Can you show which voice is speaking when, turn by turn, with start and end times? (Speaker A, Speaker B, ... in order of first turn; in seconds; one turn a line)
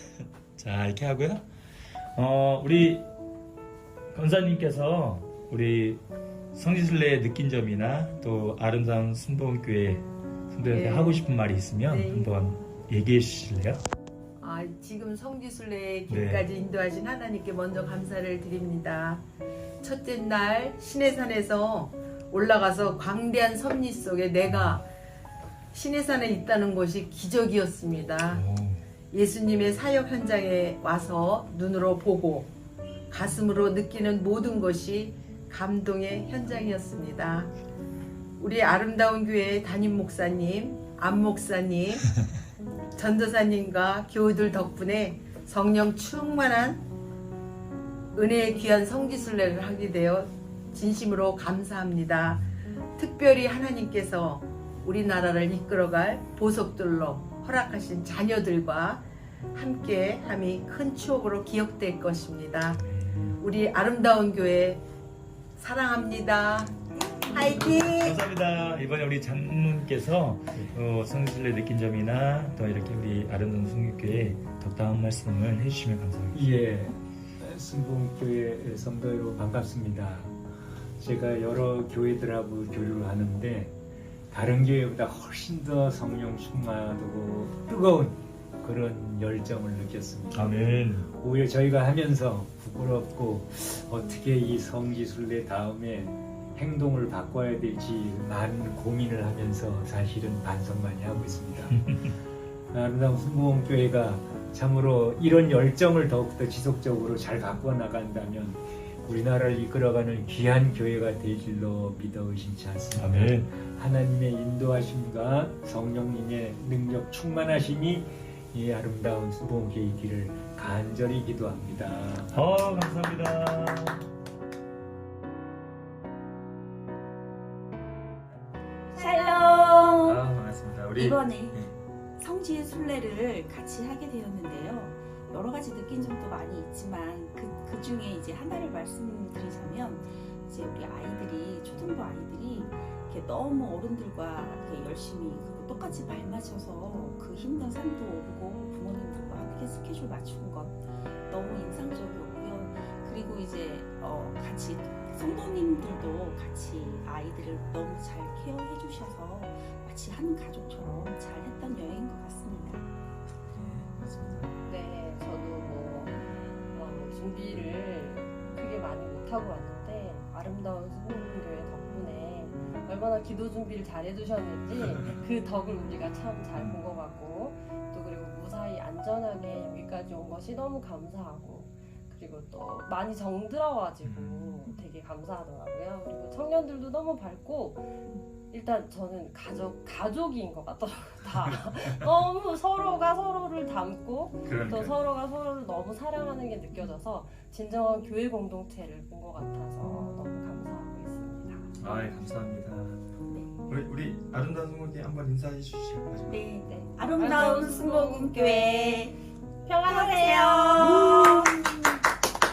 Speaker A: 0.6-1.4
Speaker A: 2.1-3.0
Speaker A: 4.1-6.0
Speaker A: 6.5-13.8
Speaker B: 10.6-11.3
Speaker B: 11.9-12.3
Speaker B: 14.4-19.2
Speaker A: 16.1-16.4
Speaker B: 19.8-24.9
Speaker A: 24.5-24.8
Speaker B: 25.7-28.4
Speaker A: 28.2-28.8
Speaker B: 29.1-32.5
Speaker B: 33.1-37.5
Speaker B: 38.4-42.1
Speaker B: 43.0-46.8
Speaker B: 48.1-62.8
Speaker A: 62.9-63.4
Speaker B: 63.4-64.8
Speaker B: 65.6-68.2
Speaker A: 67.6-76.4
Speaker C: 76.3-80.4
Speaker C: 81.0-83.8
Speaker C: 84.3-101.8
Speaker A: 90.3-91.0
Speaker C: 102.7-122.3
Speaker A: 113.0-113.4
Speaker A: 122.3-124.0
Speaker D: 128.9-130.2
Speaker A: 130.0-131.8
Speaker D: 130.9-131.6
Speaker D: 132.2-162.8
Speaker A: 163.4-164.6
Speaker E: 164.7-166.1
Speaker E: 166.7-188.0
Speaker A: 176.5-176.8
Speaker A: 184.0-184.6
Speaker E: 188.5-201.8
Speaker A: 194.4-194.9
Speaker A: 201.8-203.0
Speaker D: 203.2-203.6
Speaker A: 203.7-206.4
Speaker D: 206.3-209.2
Speaker E: 207.1-209.1
Speaker E: 209.6-211.4
Speaker D: 209.8-211.5